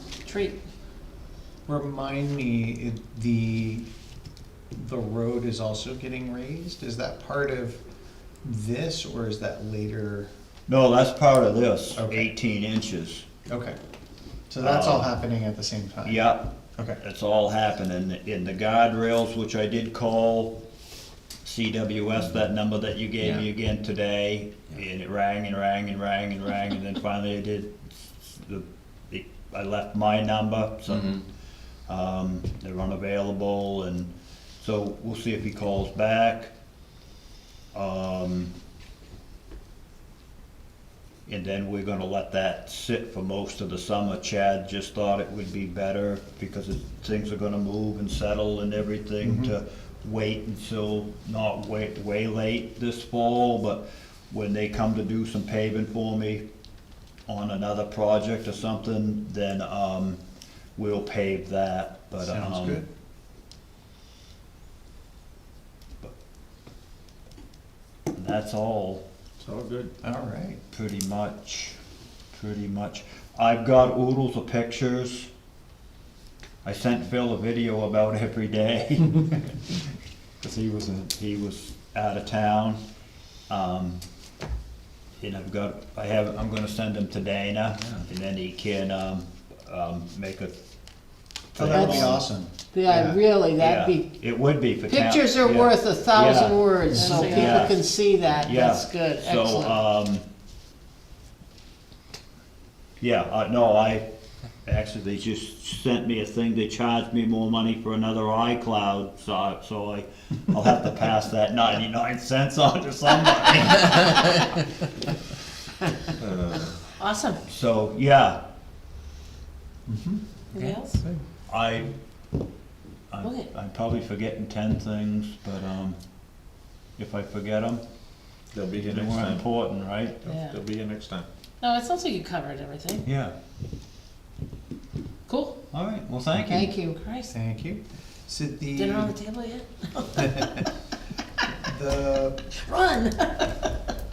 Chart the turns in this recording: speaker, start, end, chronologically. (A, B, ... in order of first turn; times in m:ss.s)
0:00.2-0:00.6 A
0:01.7-0:03.9 B
0:04.8-0:07.8 B
0:08.4-0:10.3 B
0:10.7-0:13.3 C
0:12.0-0:12.3 B
0:13.5-0:13.8 B
0:14.5-0:16.2 B
0:14.6-0:15.1 C
0:16.0-0:20.6 C
0:21.4-0:31.3 C
0:31.9-0:36.5 C
0:37.7-0:38.6 C
0:41.3-0:56.4 C
0:49.2-0:49.5 B
0:57.3-1:00.2 C
1:00.8-1:02.8 C
1:02.2-1:02.8 B
1:08.1-1:09.0 C
1:09.4-1:09.9 D
1:10.0-1:10.6 B
1:10.7-1:11.8 C
1:12.3-1:15.3 C
1:16.6-1:19.6 C
1:20.4-1:22.8 C
1:23.5-1:24.0 C
1:25.2-1:30.6 C
1:31.5-1:32.5 C
1:31.6-1:33.2 B
1:31.7-1:32.1 E
1:32.7-1:34.1 E
1:33.6-1:40.2 C
1:34.9-1:39.8 E
1:36.9-1:37.8 A
1:43.0-1:44.1 C
1:44.6-1:54.4 C
1:56.2-1:56.8 D
1:57.0-1:57.4 A
1:57.5-1:58.4 C
1:59.9-2:00.2 B
2:00.5-2:01.0 A
2:01.5-2:01.9 C
2:03.1-2:06.0 C
2:03.2-2:03.5 A
2:07.0-2:07.8 C
2:08.5-2:09.4 D
2:08.8-2:10.2 C
2:10.2-2:11.3 D
2:10.2-2:10.6 A
2:11.6-2:13.0 A
2:13.0-2:13.3 C
2:15.3-2:15.6 A
2:15.7-2:16.8 C
2:16.4-2:17.0 E
2:17.0-2:17.3 A
2:17.3-2:19.2 B
2:18.8-2:20.6 A
2:20.1-2:20.7 B
2:21.6-2:22.5 B
2:22.6-2:23.7 A